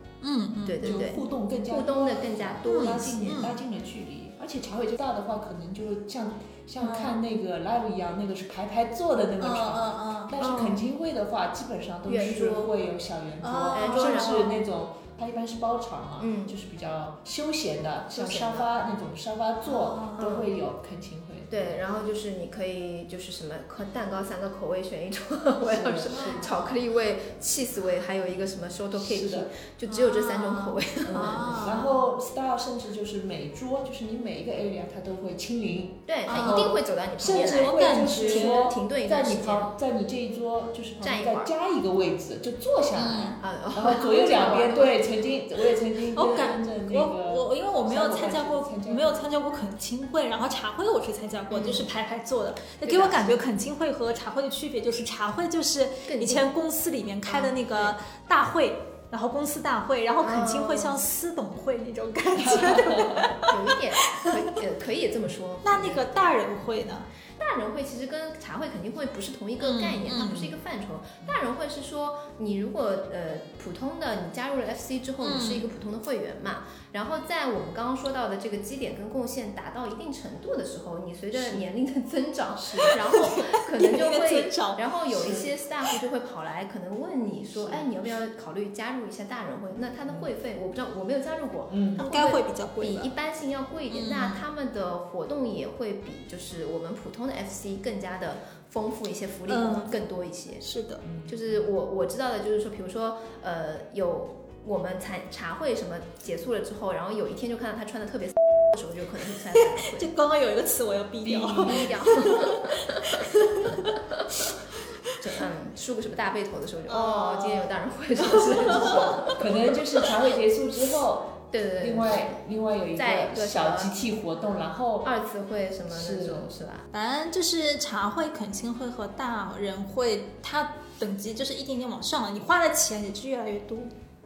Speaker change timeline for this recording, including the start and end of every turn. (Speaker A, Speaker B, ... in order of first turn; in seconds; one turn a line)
Speaker A: 0.2-1.1
Speaker B: 0.7-3.4
Speaker C: 0.8-21.8
Speaker A: 2.7-3.6
Speaker A: 6.8-7.2
Speaker A: 9.4-10.3
Speaker B: 10.4-10.8
Speaker B: 12.1-12.7
Speaker A: 13.4-14.4
Speaker B: 13.7-14.6
Speaker B: 16.2-16.6
Speaker B: 18.1-18.7
Speaker A: 19.6-20.4
Speaker B: 20.2-20.5
Speaker B: 21.5-31.4
Speaker C: 25.7-26.6
Speaker C: 29.0-29.5
Speaker A: 29.9-31.9
Speaker C: 31.1-49.3
Speaker B: 36.1-39.7
Speaker A: 36.3-38.7
Speaker B: 41.0-41.5
Speaker A: 43.0-43.4
Speaker B: 43.4-45.0
Speaker A: 46.1-64.2
Speaker B: 51.5-51.9
Speaker B: 52.9-53.4
Speaker B: 56.1-56.5
Speaker B: 57.3-58.0
Speaker B: 60.2-61.0
Speaker C: 62.5-63.3
Speaker B: 63.5-66.1
Speaker A: 65.6-67.1
Speaker B: 67.4-100.7
Speaker A: 69.6-70.5
Speaker A: 75.2-75.7
Speaker C: 82.6-83.0
Speaker A: 82.9-85.5
Speaker C: 91.7-92.0
Speaker A: 92.0-93.1
Speaker A: 93.9-94.4
Speaker A: 99.5-99.9
Speaker A: 100.6-101.0
Speaker C: 101.0-101.6
Speaker B: 101.3-110.1
Speaker A: 109.5-114.5
Speaker B: 111.3-113.2
Speaker C: 111.4-112.1
Speaker B: 115.2-119.4
Speaker A: 116.9-119.2
Speaker C: 118.8-125.1
Speaker B: 121.5-122.3
Speaker B: 123.0-124.0
Speaker B: 125.0-126.9
Speaker C: 125.9-126.5
Speaker A: 126.9-133.9